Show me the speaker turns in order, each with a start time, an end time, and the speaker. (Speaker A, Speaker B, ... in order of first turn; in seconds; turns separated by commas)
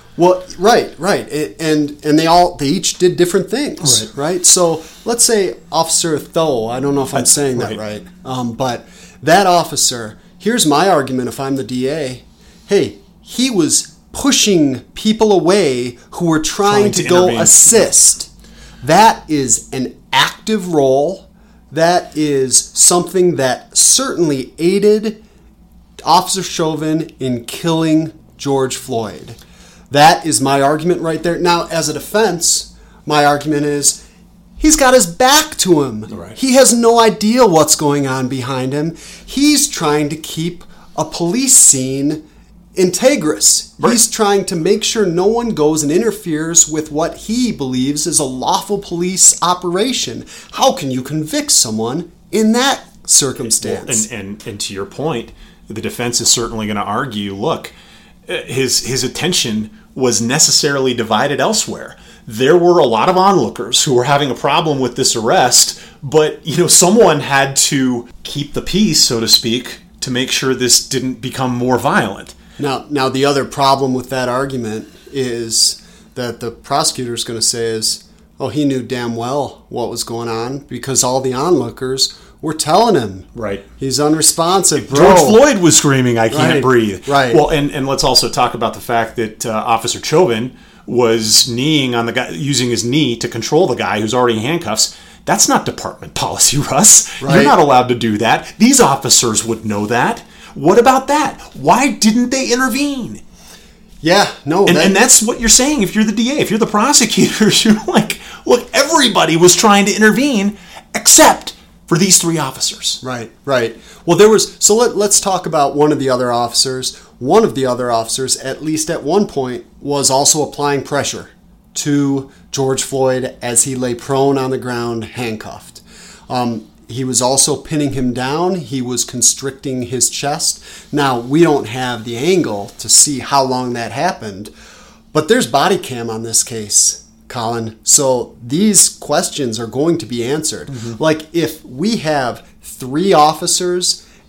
Speaker A: 0.2-18.3, Speaker B: 3.8-4.1, Speaker B: 7.1-7.8, Speaker B: 16.6-17.9, Speaker A: 18.8-25.2, Speaker A: 26.0-29.4, Speaker A: 29.9-34.0, Speaker A: 34.6-42.2, Speaker B: 36.1-36.4, Speaker A: 42.7-54.0, Speaker B: 53.6-57.7, Speaker B: 58.3-72.3, Speaker A: 72.6-85.4, Speaker B: 83.3-83.6, Speaker B: 84.8-103.2, Speaker A: 86.3-87.4, Speaker A: 97.2-97.5, Speaker A: 104.0-105.0, Speaker B: 104.7-113.0, Speaker A: 113.0-134.5, Speaker A: 135.1-144.0